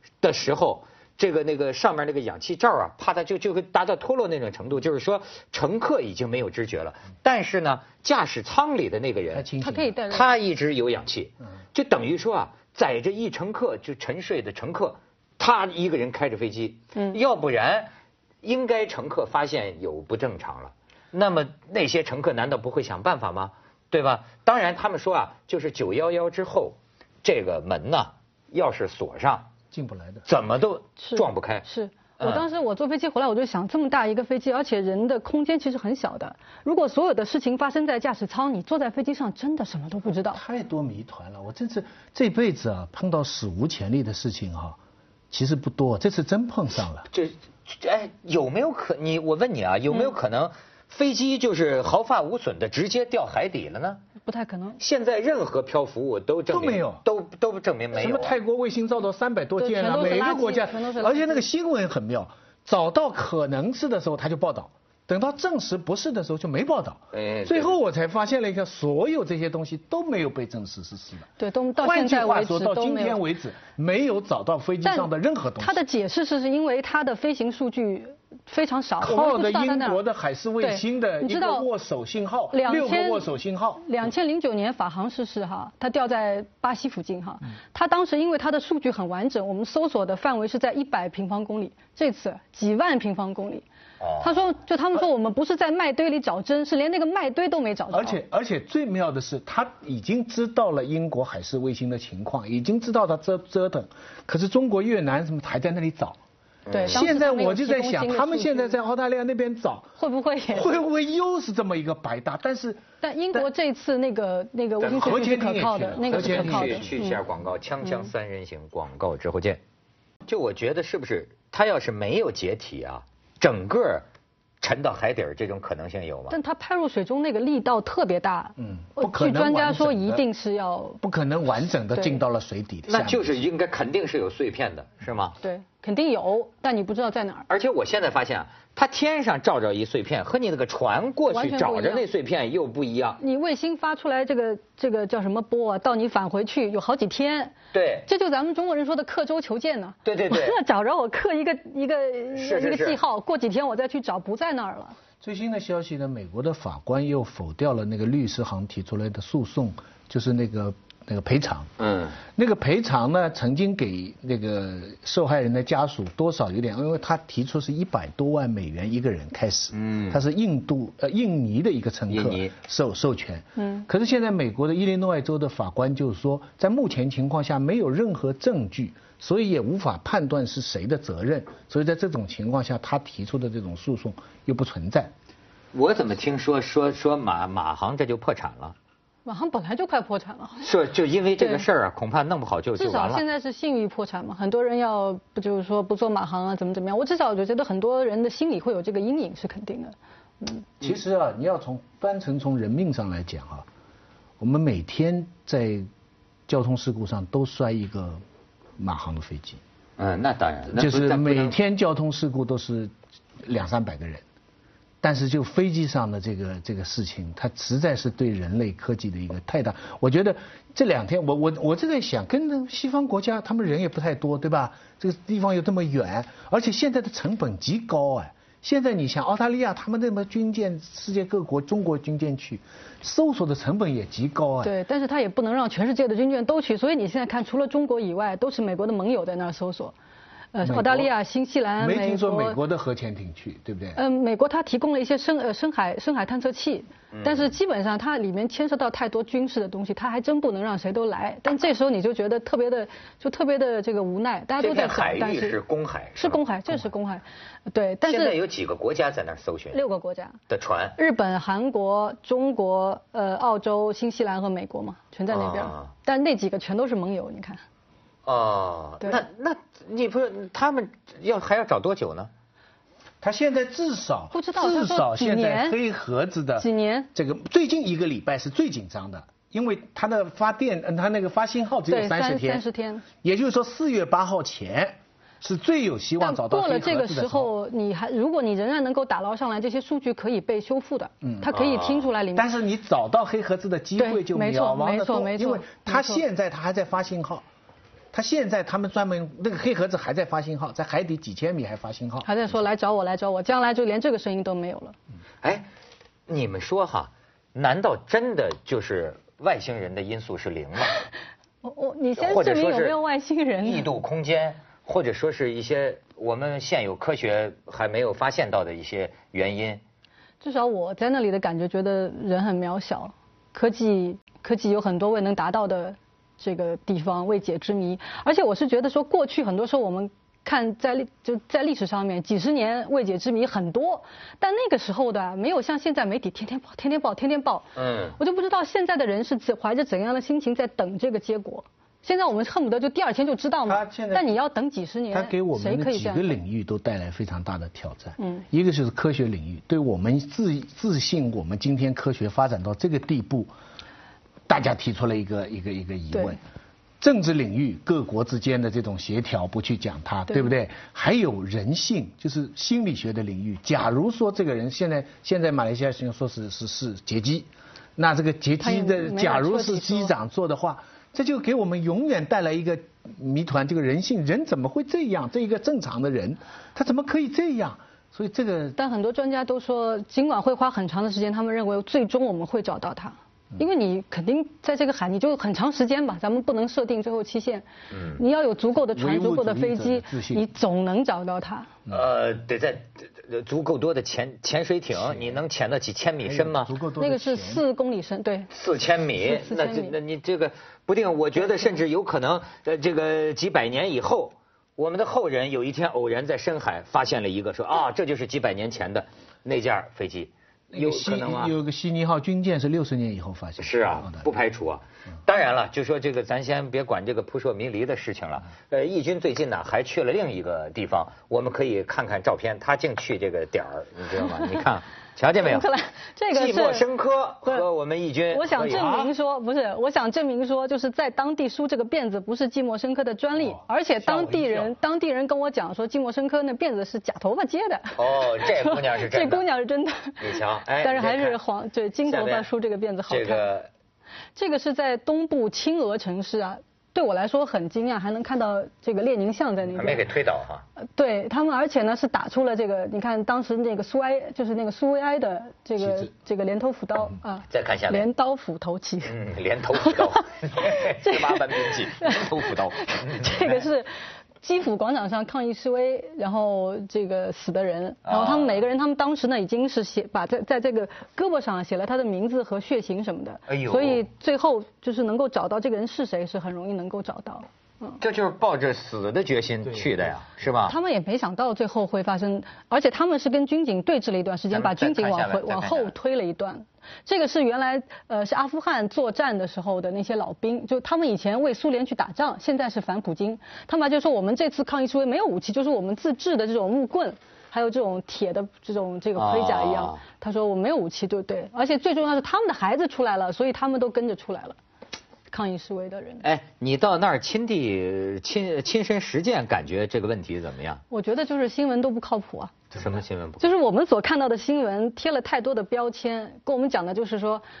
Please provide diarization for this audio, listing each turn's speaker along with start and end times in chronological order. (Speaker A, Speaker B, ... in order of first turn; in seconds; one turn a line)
Speaker A: 0.2-9.5
Speaker B: 9.3-9.9
Speaker C: 9.6-10.3
Speaker A: 10.1-17.9
Speaker A: 18.4-29.5
Speaker B: 29.7-30.2
Speaker A: 30.2-31.6
Speaker C: 31.0-40.4
Speaker A: 32.2-32.4
Speaker B: 40.3-44.8
Speaker B: 45.3-47.0
Speaker A: 47.1-54.0
Speaker C: 54.2-54.8
Speaker A: 54.8-58.4
Speaker B: 56.5-57.0
Speaker B: 57.9-75.8
Speaker C: 59.6-61.5
Speaker A: 67.1-67.8
Speaker C: 71.4-73.2
Speaker C: 74.8-80.0
Speaker B: 79.0-83.8
Speaker C: 80.6-81.7
Speaker C: 82.5-93.6
Speaker A: 94.0-94.5
Speaker C: 94.2-98.2
Speaker B: 97.9-106.2
Speaker A: 106.7-107.1
Speaker C: 106.7-108.8
Speaker B: 106.9-109.9
Speaker C: 110.0-110.8
Speaker B: 110.5-113.5
Speaker C: 113.0-117.2
Speaker A: 114.8-115.2
Speaker B: 114.9-116.9
Speaker A: 116.0-119.6
Speaker A: 120.3-124.0
Speaker A: 124.6-126.4
Speaker C: 126.3-131.0
Speaker B: 128.6-130.2
Speaker B: 131.0-133.4
Speaker C: 131.9-132.2
Speaker A: 132.9-135.3
Speaker C: 135.4-137.4
Speaker A: 137.5-143.2
Speaker C: 141.3-142.1
Speaker C: 143.2-155.0
Speaker A: 147.7-148.1
Speaker A: 150.0-150.6
Speaker A: 152.3-153.0
Speaker B: 155.2-161.7
Speaker A: 161.8-162.2
Speaker B: 162.3-185.1
Speaker A: 169.7-170.2
Speaker A: 172.1-172.5
Speaker A: 185.7-188.7
Speaker C: 189.2-190.7
Speaker A: 190.6-193.2
Speaker C: 191.4-191.7
Speaker C: 192.8-200.7
Speaker B: 200.8-203.7
Speaker B: 204.4-205.9
Speaker B: 206.5-208.2
Speaker B: 208.8-209.6
Speaker A: 210.0-211.6
Speaker B: 210.7-212.9
Speaker B: 213.4-214.2
Speaker B: 215.0-234.7
Speaker C: 234.6-239.9
Speaker C: 240.5-242.6
Speaker B: 240.6-241.1
Speaker B: 241.8-244.0
Speaker C: 243.9-255.6
Speaker A: 247.1-247.5
Speaker A: 254.6-256.4
Speaker C: 256.1-258.4
Speaker A: 258.1-259.8
Speaker C: 259.7-260.4
Speaker A: 260.5-261.0
Speaker C: 261.0-267.6
Speaker A: 265.3-265.9
Speaker A: 268.2-272.3
Speaker B: 273.2-282.6
Speaker C: 274.3-275.8
Speaker C: 276.6-277.1
Speaker C: 281.9-283.1
Speaker B: 283.2-287.5
Speaker C: 286.2-292.5
Speaker B: 291.2-291.5
Speaker A: 291.5-292.1
Speaker B: 292.3-297.4
Speaker C: 294.0-296.2
Speaker B: 298.1-302.3
Speaker C: 302.2-304.9
Speaker A: 305.4-305.7
Speaker A: 306.3-311.0
Speaker C: 311.6-313.9
Speaker A: 312.2-313.0
Speaker A: 313.6-319.8
Speaker C: 320.4-346.4
Speaker A: 337.8-338.2
Speaker B: 343.6-344.3
Speaker B: 345.1-353.5
Speaker C: 348.2-348.4
Speaker B: 354.5-356.4
Speaker C: 356.1-356.4
Speaker B: 357.0-378.8
Speaker C: 368.6-370.1
Speaker C: 378.8-391.7
Speaker A: 387.9-388.2
Speaker B: 388.8-390.5
Speaker A: 391.9-396.8
Speaker B: 395.0-395.4
Speaker B: 396.2-397.6
Speaker C: 397.0-398.5
Speaker A: 398.5-411.5
Speaker C: 399.1-400.0
Speaker B: 410.7-414.3
Speaker A: 413.6-425.7
Speaker C: 425.4-426.9
Speaker A: 426.3-429.1
Speaker C: 428.3-443.5
Speaker B: 433.4-434.7
Speaker A: 438.0-439.5
Speaker A: 440.2-441.4
Speaker A: 442.1-442.5
Speaker A: 443.1-443.7
Speaker C: 444.3-450.1
Speaker A: 449.7-450.6
Speaker C: 450.8-459.1
Speaker A: 457.5-458.1
Speaker A: 459.0-463.6
Speaker C: 459.7-478.0
Speaker A: 468.0-468.6
Speaker A: 473.5-474.0
Speaker A: 478.0-480.7
Speaker C: 480.6-504.6
Speaker A: 484.5-485.9
Speaker A: 499.1-500.0
Speaker C: 505.3-506.2
Speaker A: 506.2-510.8
Speaker C: 510.9-512.6
Speaker A: 512.7-513.6
Speaker C: 513.4-517.4